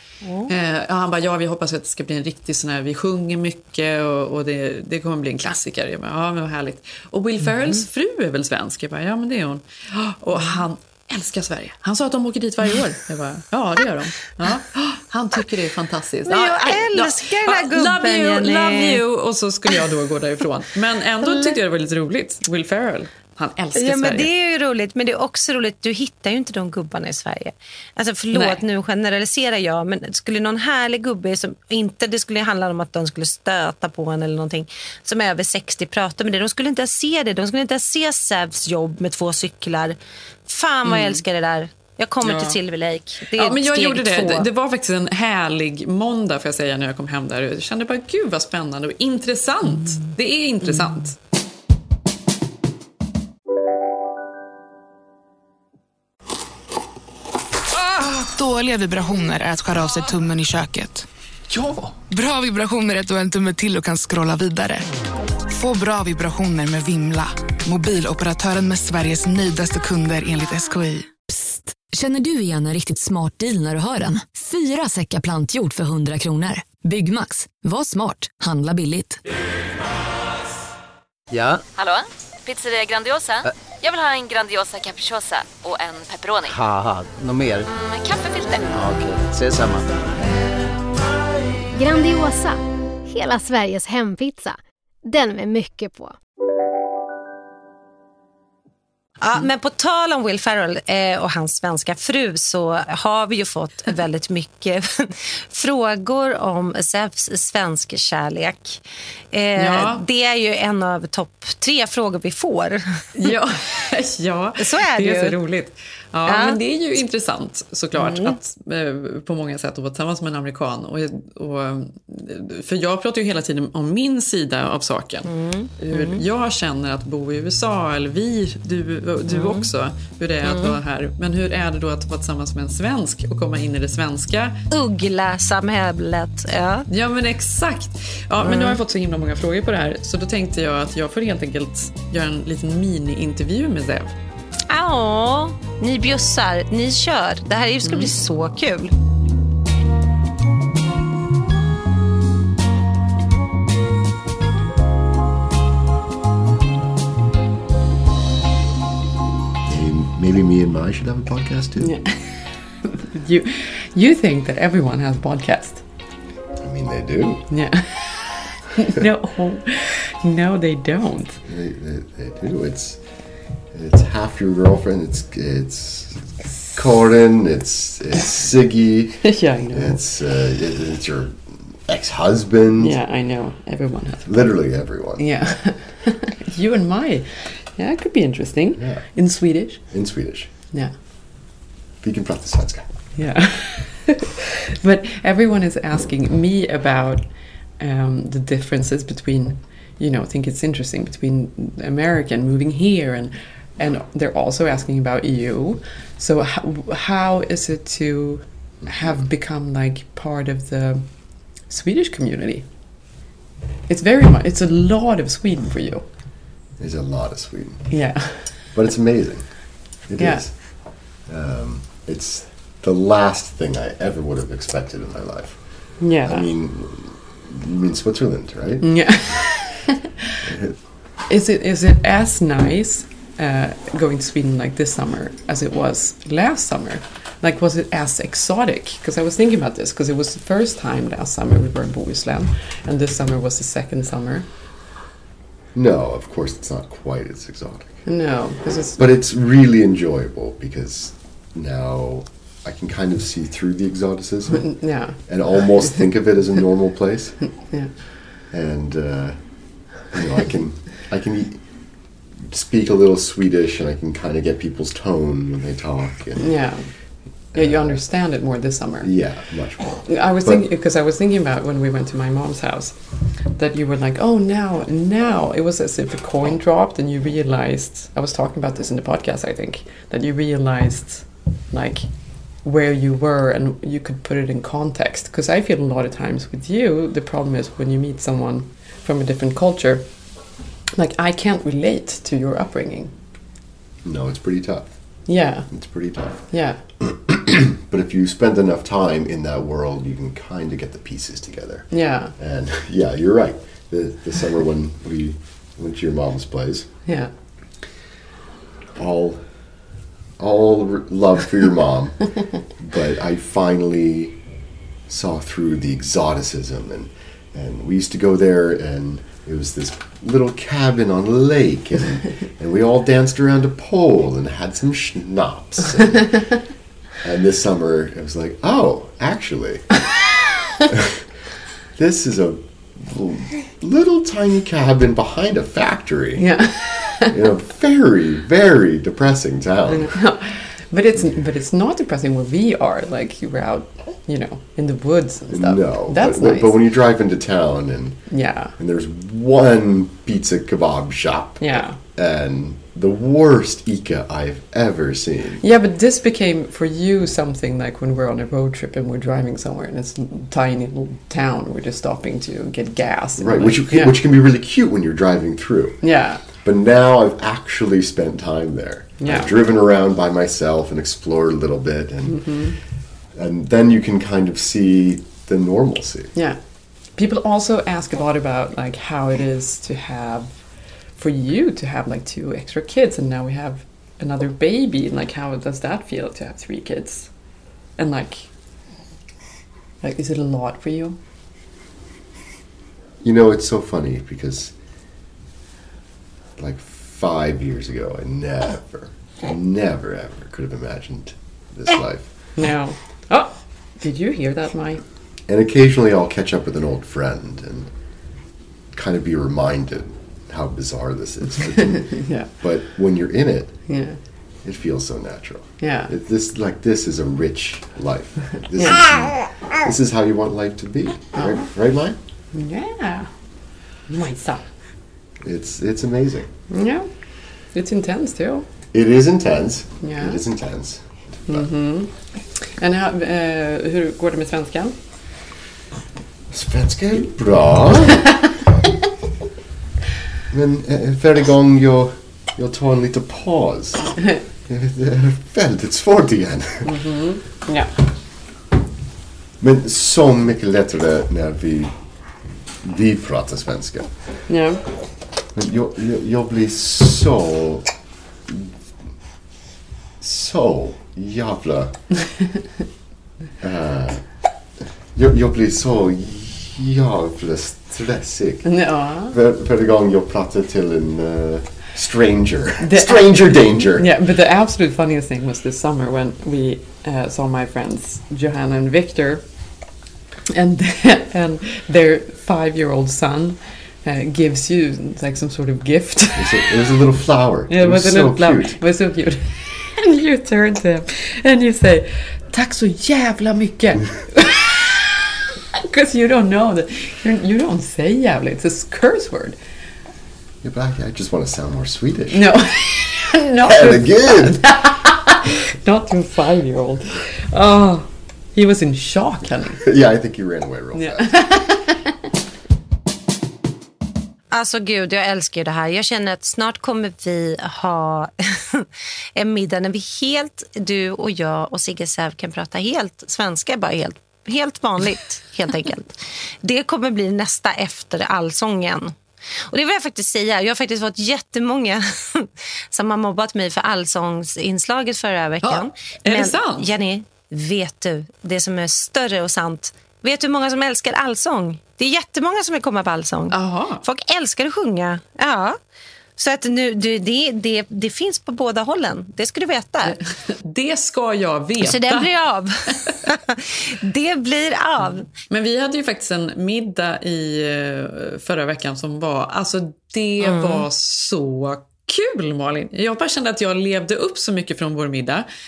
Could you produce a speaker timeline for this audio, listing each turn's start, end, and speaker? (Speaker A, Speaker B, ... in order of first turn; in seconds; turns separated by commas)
Speaker A: 0.2-0.5, Speaker B: 0.5-24.3, Speaker A: 7.5-7.8, Speaker A: 16.2-19.0, Speaker A: 21.2-21.5, Speaker A: 23.7-44.5, Speaker B: 28.3-28.6, Speaker B: 40.8-41.2, Speaker B: 42.2-42.6, Speaker B: 43.3-51.2, Speaker A: 50.6-51.0, Speaker C: 58.1-61.0, Speaker C: 62.1-64.9, Speaker C: 65.5-71.1, Speaker D: 71.3-79.2, Speaker E: 81.3-81.6, Speaker F: 81.7-86.6, Speaker E: 86.5-87.7, Speaker F: 87.7-88.8, Speaker E: 88.7-90.0, Speaker G: 91.7-96.2, Speaker A: 99.2-112.8, Speaker B: 109.6-110.0, Speaker B: 113.1-134.6, Speaker A: 114.6-115.4, Speaker A: 116.2-116.6, Speaker A: 118.0-118.4, Speaker A: 125.2-126.2, Speaker A: 129.3-129.7, Speaker A: 130.4-130.8, Speaker A: 134.7-136.9, Speaker B: 136.9-144.2, Speaker A: 138.4-138.8, Speaker A: 144.7-148.9, Speaker H: 159.7-162.0, Speaker B: 161.8-162.2, Speaker B: 162.8-165.8, Speaker H: 166.6-167.6, Speaker B: 167.5-171.4, Speaker H: 171.4-183.0, Speaker B: 179.2-180.0, Speaker B: 182.8-184.6, Speaker H: 184.2-185.6, Speaker B: 185.2-189.8, Speaker H: 188.8-190.5, Speaker B: 190.7-191.0, Speaker H: 192.0-193.1, Speaker B: 193.1-212.7, Speaker H: 208.8-209.2, Speaker B: 213.9-216.1, Speaker H: 216.8-229.6, Speaker B: 217.9-218.6, Speaker B: 220.2-220.5, Speaker B: 226.0-226.5, Speaker B: 228.8-229.9, Speaker H: 230.5-231.0, Speaker B: 231.2-244.5, Speaker H: 245.7-270.7, Speaker B: 248.0-249.0, Speaker B: 254.5-256.0, Speaker B: 257.4-257.9, Speaker B: 266.4-293.1, Speaker H: 294.0-307.1, Speaker B: 295.2-296.8, Speaker B: 301.9-302.3, Speaker B: 307.0-307.3, Speaker H: 308.9-314.4, Speaker H: 315.1-330.1, Speaker H: 331.9-340.3, Speaker B: 336.4-337.3, Speaker B: 339.9-346.8, Speaker H: 345.5-355.6, Speaker B: 348.3-348.8, Speaker B: 351.6-352.0, Speaker B: 355.6-364.2, Speaker H: 363.4-376.3, Speaker B: 366.0-366.4, Speaker B: 369.2-369.5, Speaker B: 372.2-372.8, Speaker B: 376.3-387.3, Speaker B: 388.0-388.5, Speaker B: 390.0-391.2, Speaker H: 393.2-394.8, Speaker H: 396.6-402.6, Speaker B: 402.5-405.0, Speaker H: 405.4-408.2, Speaker H: 408.9-414.1, Speaker B: 411.8-412.5, Speaker B: 413.9-414.2, Speaker H: 414.6-422.1, Speaker B: 415.8-416.1, Speaker B: 418.7-419.3, Speaker B: 421.3-421.7, Speaker B: 422.5-423.3, Speaker B: 424.1-424.7, Speaker H: 425.4-426.5, Speaker B: 426.7-428.7, Speaker H: 428.9-431.7, Speaker B: 430.0-430.4, Speaker B: 431.4-435.0, Speaker H: 436.5-438.4, Speaker H: 440.5-447.0, Speaker B: 446.8-447.9, Speaker H: 449.6-454.6, Speaker B: 454.5-454.8, Speaker H: 455.5-459.1, Speaker H: 460.2-462.4, Speaker H: 463.6-464.4, Speaker H: 465.1-474.1, Speaker B: 468.6-469.4, Speaker B: 472.8-479.7, Speaker B: 480.5-487.0, Speaker H: 486.4-488.8, Speaker B: 487.7-495.0, Speaker B: 495.7-499.6, Speaker H: 500.6-502.6, Speaker B: 502.3-509.8, Speaker H: 503.6-504.7, Speaker H: 509.8-511.6, Speaker B: 510.9-512.1, Speaker A: 514.5-529.1, Speaker A: 529.7-545.8, Speaker B: 535.6-536.9, Speaker B: 543.5-544.0, Speaker A: 546.4-550.2, Speaker B: 550.0-552.3, Speaker A: 551.8-555.3, Speaker B: 555.3-565.5, Speaker A: 560.4-560.8